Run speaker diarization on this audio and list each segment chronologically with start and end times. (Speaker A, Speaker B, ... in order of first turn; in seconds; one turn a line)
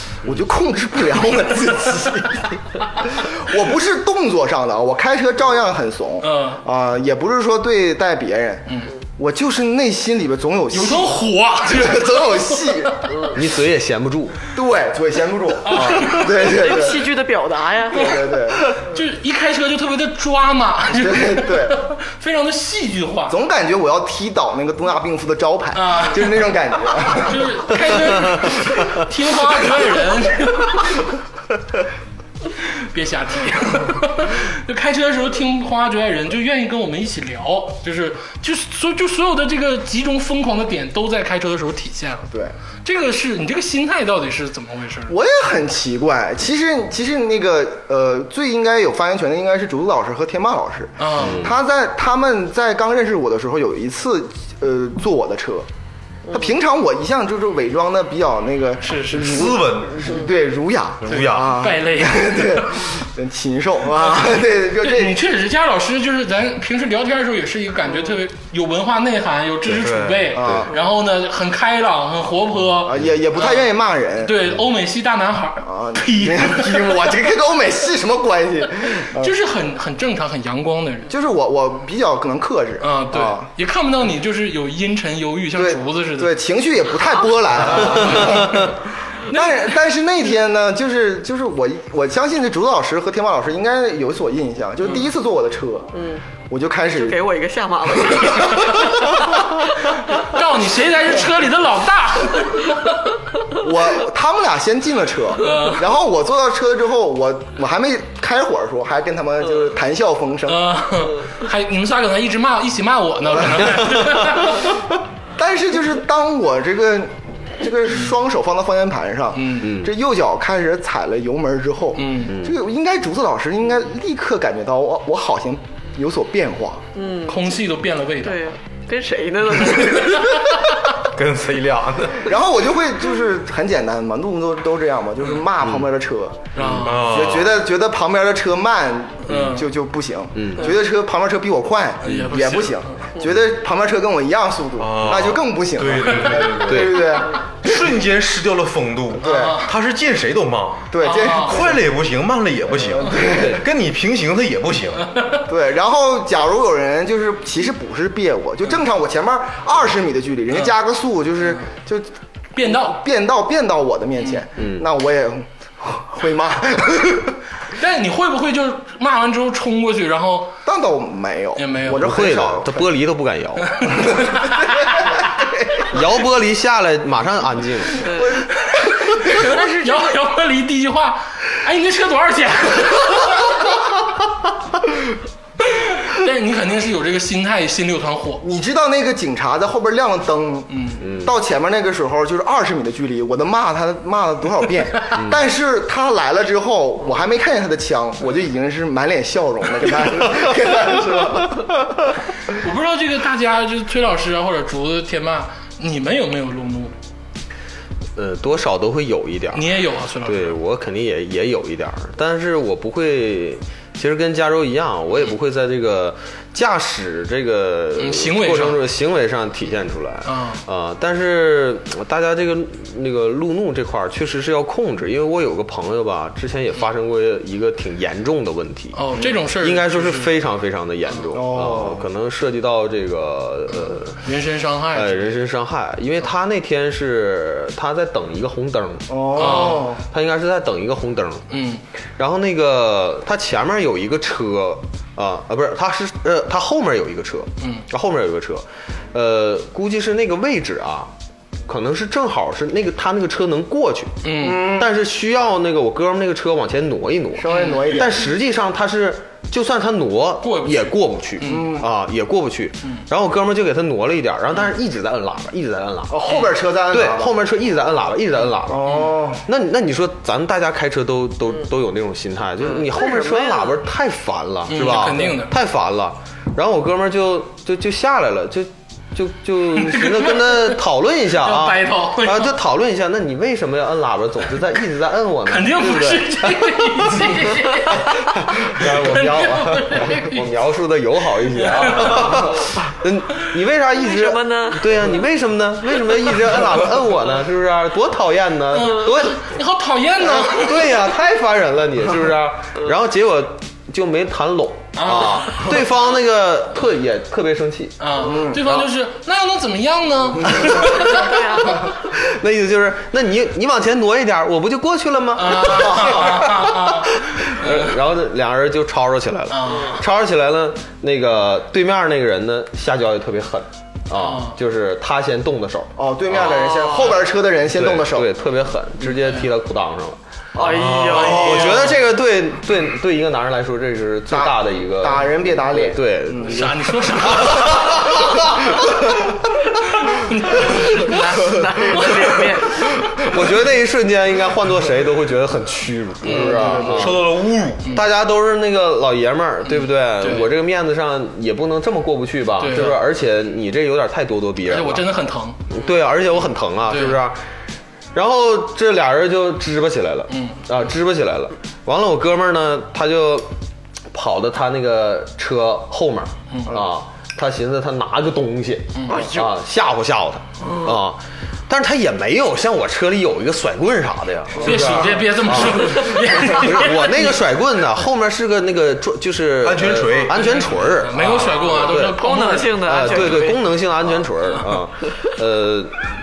Speaker A: 0.2-13.1
Speaker B: 6.2-6.6
Speaker B: 8.7-8.9
Speaker B: 10.7-13.1
Speaker C: 13.3-14.4
Speaker A: 14.5-17.1
Speaker B: 15.6-16.6
Speaker D: 16.4-18.2
Speaker A: 17.9-18.8
Speaker B: 18.7-23.4
Speaker A: 20.9-21.8
Speaker A: 23.3-27.8
Speaker B: 25.7-26.4
Speaker B: 27.2-31.0
Speaker B: 32.6-42.3
Speaker B: 42.8-45.1
Speaker A: 45.1-55.6
Speaker B: 51.0-51.4
Speaker C: 51.2-51.6
Speaker A: 56.3-65.2
Speaker B: 58.8-59.5
Speaker E: 59.1-60.2
Speaker E: 61.0-61.5
Speaker B: 61.1-62.9
Speaker B: 64.0-73.7
Speaker E: 69.7-70.6
Speaker A: 70.3-70.7
Speaker A: 72.8-74.5
Speaker B: 74.2-77.1
Speaker A: 75.6-79.3
Speaker B: 78.8-81.1
Speaker A: 81.1-83.5
Speaker B: 82.8-86.4
Speaker A: 85.5-95.9
Speaker B: 87.6-88.7
Speaker B: 89.3-89.7
Speaker D: 95.9-96.2
Speaker A: 96.5-97.2
Speaker D: 96.9-98.8
Speaker A: 98.0-99.0
Speaker B: 98.6-98.9
Speaker B: 99.8-103.1
Speaker A: 103.5-110.6
Speaker B: 105.4-105.9
Speaker B: 110.5-114.8
Speaker A: 115.4-126.8
Speaker B: 119.3-119.7
Speaker C: 119.6-119.9
Speaker B: 122.0-122.3
Speaker C: 122.3-122.5
Speaker D: 126.9-127.5
Speaker B: 127.3-128.4
Speaker D: 128.2-130.4
Speaker B: 129.8-130.4
Speaker E: 131.0-132.3
Speaker A: 132.3-147.9
Speaker C: 135.6-135.9
Speaker B: 136.5-137.1
Speaker E: 136.7-137.6
Speaker B: 139.2-139.7
Speaker C: 140.3-140.7
Speaker B: 142.0-142.9
Speaker E: 144.8-147.1
Speaker B: 146.2-146.5
Speaker C: 146.6-147.1
Speaker E: 147.6-155.1
Speaker A: 149.2-149.6
Speaker B: 149.2-149.7
Speaker A: 150.9-151.8
Speaker B: 151.0-151.7
Speaker A: 152.9-153.6
Speaker B: 155.0-155.5
Speaker A: 155.5-162.1
Speaker B: 162.5-163.0
Speaker A: 162.6-167.3
Speaker C: 164.6-164.9
Speaker B: 167.7-170.5
Speaker A: 170.6-172.9
Speaker B: 171.6-172.1
Speaker C: 172.0-174.0
Speaker B: 173.6-175.2
Speaker A: 174.4-175.9
Speaker C: 175.8-178.1
Speaker D: 178.0-178.4
Speaker B: 178.6-183.7
Speaker D: 179.6-179.9
Speaker B: 185.7-188.4
Speaker A: 188.4-201.8
Speaker B: 190.7-191.0
Speaker C: 191.0-191.3
Speaker C: 195.1-195.4
Speaker B: 202.5-206.9
Speaker C: 208.2-234.2
Speaker B: 209.5-210.6
Speaker B: 218.0-218.8
Speaker B: 220.2-220.6
Speaker B: 228.9-230.3
Speaker A: 231.3-232.1
Speaker B: 234.2-235.4
Speaker C: 234.9-241.5
Speaker A: 239.1-240.0
Speaker B: 239.3-239.9
Speaker B: 241.5-241.8
Speaker C: 242.2-251.1
Speaker B: 247.6-247.8
Speaker C: 251.7-287.4
Speaker B: 254.2-254.8
Speaker A: 254.4-254.9
Speaker A: 257.4-258.3
Speaker B: 257.5-258.0
Speaker B: 260.4-261.8
Speaker A: 261.4-261.9
Speaker A: 266.1-267.3
Speaker A: 268.7-269.4
Speaker B: 268.9-269.1
Speaker D: 272.6-273.8
Speaker B: 274.7-275.6
Speaker B: 279.7-280.8
Speaker B: 281.3-282.6
Speaker B: 285.4-290.4
Speaker C: 288.0-299.4
Speaker B: 291.5-292.7
Speaker D: 293.9-295.1
Speaker B: 298.7-301.0
Speaker C: 300.2-308.9
Speaker B: 304.9-305.7
Speaker B: 308.0-311.4
Speaker A: 308.2-308.6
Speaker C: 310.5-326.6
Speaker D: 311.1-311.9
Speaker B: 315.3-318.0
Speaker B: 319.5-320.0
Speaker B: 324.1-324.6
Speaker A: 326.0-328.3
Speaker D: 326.3-327.2
Speaker C: 327.7-339.1
Speaker B: 329.2-329.5
Speaker D: 330.5-331.7
Speaker E: 330.6-331.8
Speaker B: 331.1-332.0
Speaker A: 334.3-336.7
Speaker B: 336.4-338.3
Speaker B: 339.8-342.4
Speaker D: 341.0-342.8
Speaker C: 343.2-347.4
Speaker B: 346.2-347.0
Speaker A: 346.2-347.2
Speaker E: 346.8-347.9
Speaker C: 347.9-355.1
Speaker B: 350.2-350.5
Speaker B: 352.6-353.0
Speaker B: 354.6-355.6
Speaker C: 355.7-357.4
Speaker B: 356.9-357.2
Speaker C: 358.1-363.5
Speaker B: 360.3-360.6
Speaker C: 364.1-382.2
Speaker B: 368.9-369.4
Speaker D: 370.6-371.0
Speaker B: 374.6-377.4
Speaker A: 374.6-375.1
Speaker E: 379.6-380.4
Speaker B: 380.3-383.4
Speaker D: 381.7-383.7
Speaker C: 382.8-386.1